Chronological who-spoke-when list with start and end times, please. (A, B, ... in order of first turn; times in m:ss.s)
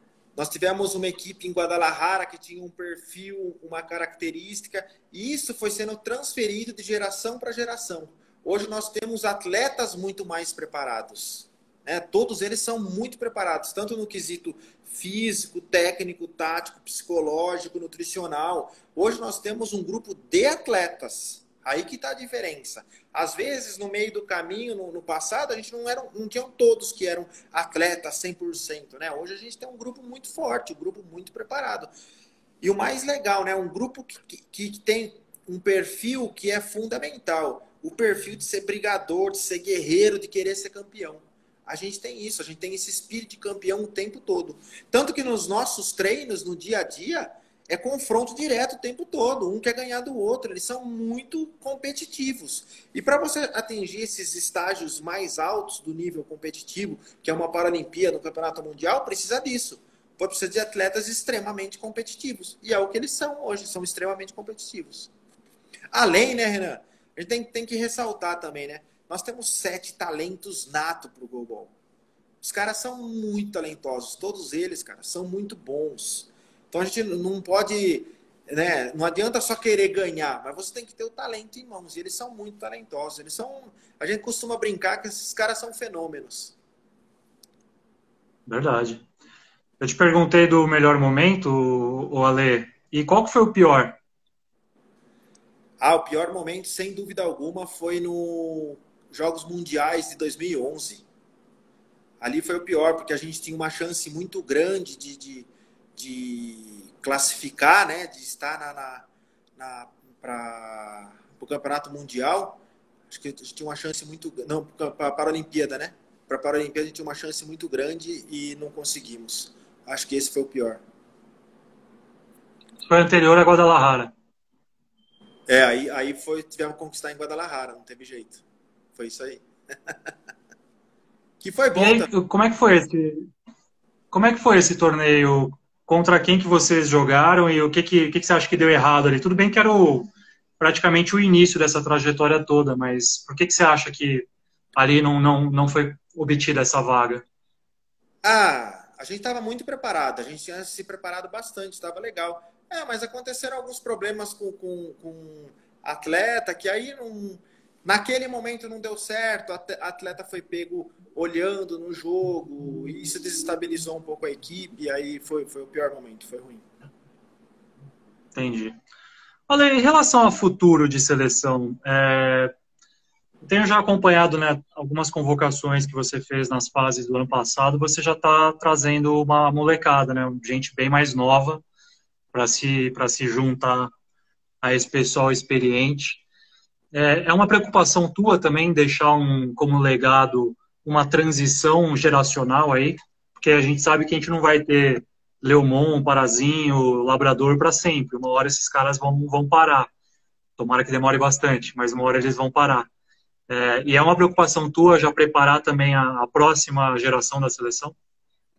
0:00.4-0:31.9 A
0:32.6-1:05.1 A
1:05.9-1:11.7 A
1:12.4-1:26.6 A
1:28.4-1:29.0 B
1:29.8-1:34.0 B
1:35.8-1:41.0 A
1:42.2-2:00.8 A
2:02.8-2:04.1 B
2:05.5-2:08.4 A
2:08.9-2:10.1 A
2:11.4-2:12.1 A
2:11.7-2:13.3 B
2:14.1-2:27.2 B
2:28.2-2:46.6 A
2:48.3-2:48.8 B
2:49.5-2:52.5 B
2:53.4-3:01.6 B
3:02.3-3:03.9 B
3:04.6-3:06.2 B
3:06.9-3:19.9 B
3:20.6-3:22.9 B
3:23.5-3:28.0 B